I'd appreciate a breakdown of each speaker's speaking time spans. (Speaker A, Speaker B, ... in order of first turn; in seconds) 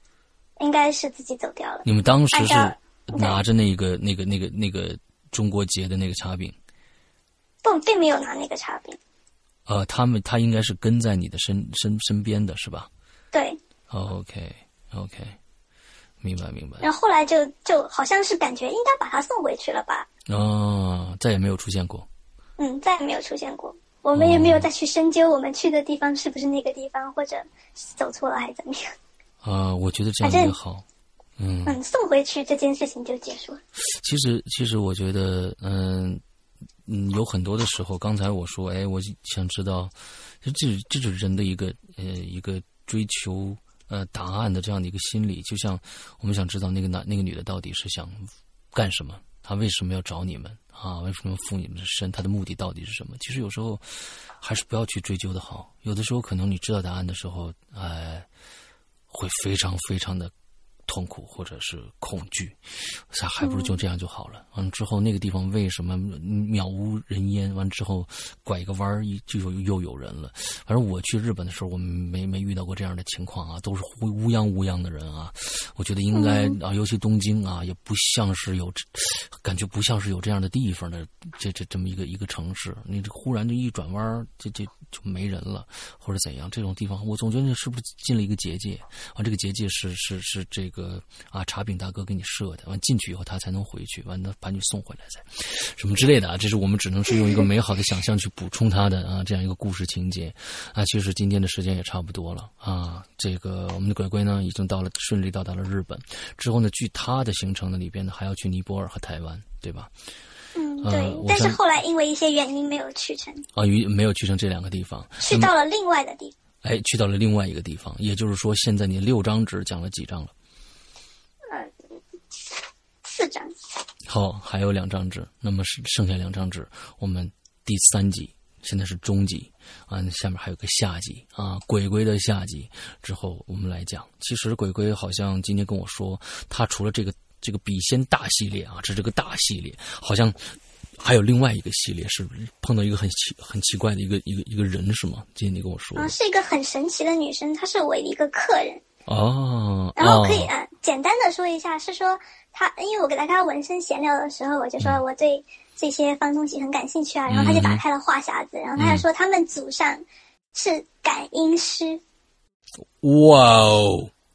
Speaker A: 0.6-3.4, 7.6-9.0, 13.3-13.6, 16.8-20.1, 22.6-28.9, 30.2-30.6, 31.7-33.6, 63.4-63.8, 76.1-76.6, 110.5-113.5, 115.2-116.3, 123.0-123.5, 146.0-148.8, 150.0-162.0
Speaker B: 1.8-6.6, 9.7-12.9, 13.9-15.4, 16.2-16.9, 20.3-22.1, 24.1-24.7, 29.4-30.8, 31.4-31.8, 34.0-36.2, 36.9-53.9, 54.4-58.3, 59.1-60.3, 60.9-109.9, 110.8-111.6, 113.5-115.5, 116.6-120.3, 124.1-140.4, 141.0-146.1, 149.1-150.5, 157.3-157.8, 158.8-159.1, 163.0-164.1